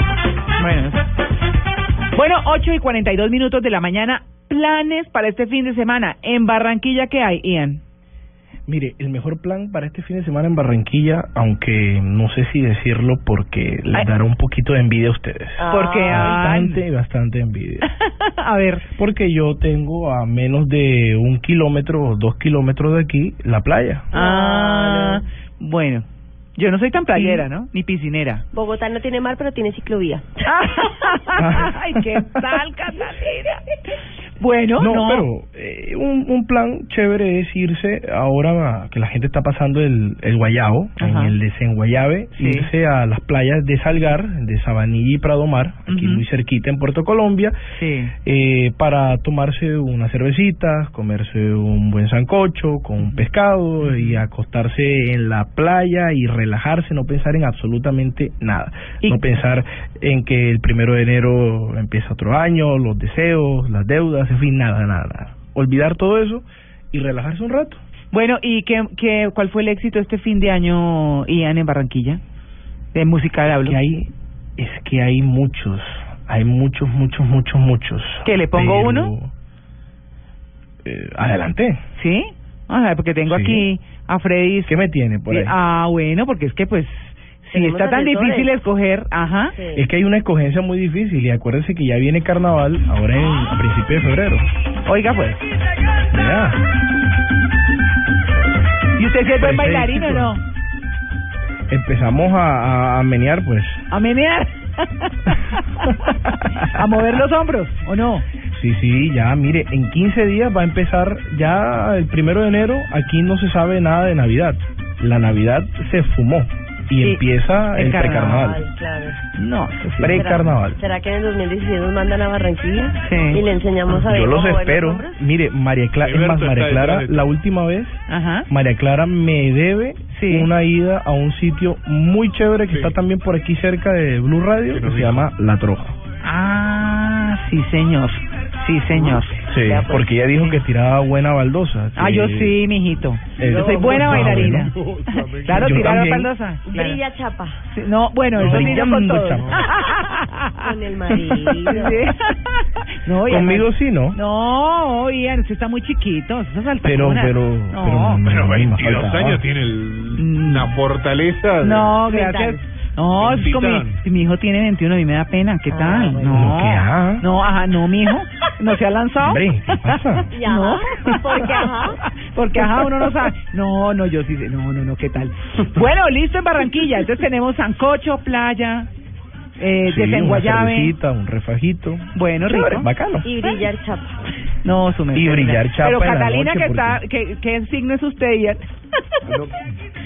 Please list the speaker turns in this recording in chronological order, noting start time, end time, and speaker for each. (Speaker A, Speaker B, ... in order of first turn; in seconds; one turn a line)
Speaker A: 0.6-1.0
Speaker A: 2.1-7.8
Speaker B: 8.7-17.9
Speaker C: 15.6-16.4
Speaker A: 15.7-16.8
Speaker A: 17.8-18.9
Speaker B: 19.0-24.1
Speaker C: 24.1-25.2
Speaker A: 24.1-28.4
Speaker C: 28.5-30.4
Speaker A: 30.5-33.6
Speaker B: 31.4-32.2
Speaker A: 34.4-35.3
Speaker B: 34.8-47.6
Speaker A: 41.0-41.4
Speaker A: 42.4-42.7
Speaker A: 45.9-46.2
Speaker A: 47.8-48.1
Speaker B: 48.2-67.8
Speaker A: 53.8-54.2
Speaker A: 68.1-72.2
Speaker A: 72.9-73.8
Speaker B: 73.6-79.3
Speaker A: 78.2-79.1
Speaker B: 80.8-81.8
Speaker A: 82.0-84.8
Speaker B: 83.2-83.7
Speaker B: 84.7-85.6
Speaker A: 85.3-89.5
Speaker C: 87.5-88.5
Speaker C: 89.5-89.9
Speaker B: 89.8-94.5
Speaker A: 94.9-95.4
Speaker B: 96.1-96.6
Speaker A: 99.0-100.4
Speaker B: 99.3-100.4
Speaker B: 101.7-103.8
Speaker A: 103.9-108.2
Speaker B: 108.5-118.6
Speaker A: 117.0-118.4
Speaker C: 117.8-119.2
Speaker A: 119.4-120.5
Speaker B: 120.0-120.8
Speaker C: 120.2-125.2
Speaker A: 123.0-123.4
Speaker B: 124.0-136.0
Speaker D: 126.0-127.3
Speaker A: 128.1-128.5
Speaker A: 130.1-130.5
Speaker D: 132.7-132.9
Speaker D: 134.7-135.3
Speaker A: 136.2-139.4
Speaker C: 138.9-140.1
Speaker B: 139.5-142.6
Speaker A: 142.0-147.0
Speaker B: 143.4-144.8
Speaker C: 143.4-144.5
Speaker D: 144.7-145.8
Speaker B: 145.5-146.3
Speaker C: 146.7-147.6
Speaker A: 147.7-150.6
Speaker B: 148.3-149.7
Speaker C: 148.5-149.4
Speaker C: 150.6-152.1
Speaker A: 151.7-158.2
Speaker B: 153.2-154.2
Speaker B: 156.8-159.4
Speaker D: 158.2-162.1
Speaker A: 160.2-160.8
Speaker A: 161.6-178.9
Speaker C: 162.1-162.6
Speaker D: 163.1-164.0
Speaker C: 165.7-166.4
Speaker B: 166.3-167.3
Speaker B: 169.2-170.3
Speaker C: 170.3-172.0
Speaker A: 179.6-181.0
Speaker B: 179.8-183.3
Speaker A: 182.1-182.9
Speaker C: 183.2-184.2
Speaker A: 184.6-188.7
Speaker B: 185.1-187.0
Speaker D: 189.2-189.6